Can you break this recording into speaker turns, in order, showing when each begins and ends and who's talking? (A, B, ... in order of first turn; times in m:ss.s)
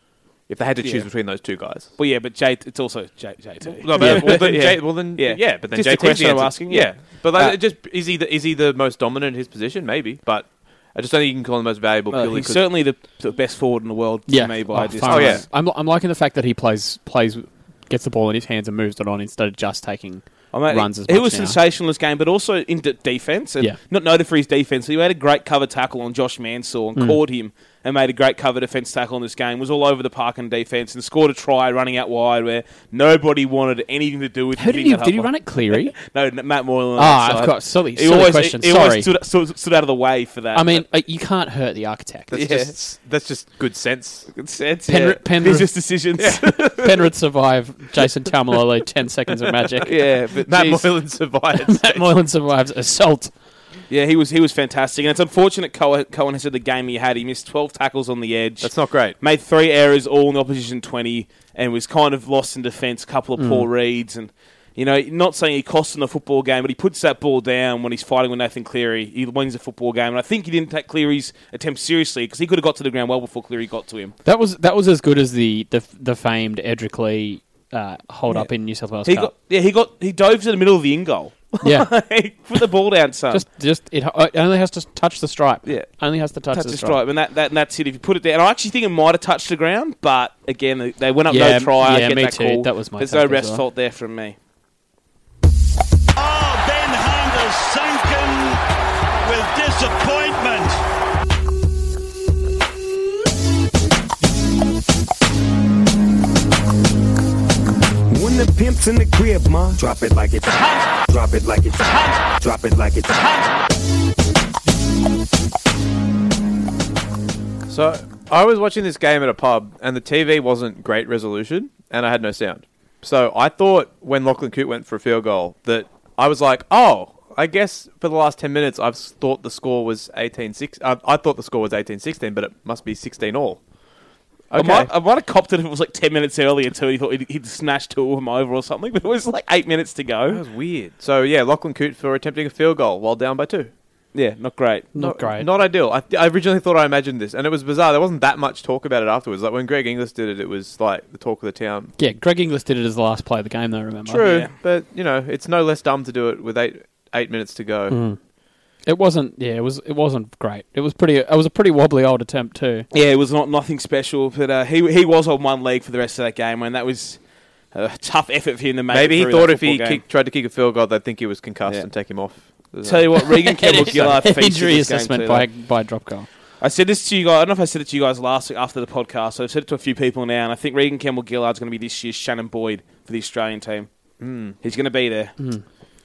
0:00.5-0:01.9 A
0:00.8-0:01.1 B
0:02.0-0:07.6 B
0:03.8-0:12.6 A
0:04.0-0:04.4 C
0:12.1-0:15.4 B
0:14.3-0:21.6 C
0:15.0-0:15.4 A
0:20.5-0:40.8 B
0:34.6-0:35.9 C
0:37.0-0:39.1 C
0:40.5-0:42.4 C
0:42.3-0:44.3 A
0:42.3-0:42.7 B
0:44.3-0:46.9 B
0:44.9-0:45.8 C
0:46.2-0:46.7 A
0:46.5-0:49.9 C
0:49.8-0:50.9 B
0:50.4-0:52.1 A
0:51.6-0:53.3 C
0:53.9-1:14.2 B
0:58.6-0:59.2 A
1:03.4-1:03.7 C
1:14.2-1:19.3 C
1:19.0-1:23.4 B
1:21.6-1:21.9 C
1:23.3-1:27.0 C
1:25.6-1:34.4 B
1:31.3-1:33.6 C
1:36.2-1:38.6 D
1:39.2-1:40.8 D
1:48.1-1:53.4 E
1:57.7-2:13.6 A
2:14.5-2:14.9 A
2:14.6-2:20.4 B
2:20.3-2:23.7 A
2:24.1-2:24.9 B
2:24.9-2:25.5 C
2:25.0-2:31.9 A
2:32.0-2:34.3 C
2:34.0-2:38.0 A
2:34.2-2:34.5 B
2:37.9-2:38.2 C
2:38.8-2:42.9 C
2:42.9-2:47.2 B
2:47.7-2:50.0 B
2:48.9-2:54.1 A
2:52.8-2:55.5 B
2:53.2-2:56.3 C
2:56.6-3:03.9 B
3:04.2-3:04.6 A
3:04.6-3:05.3 B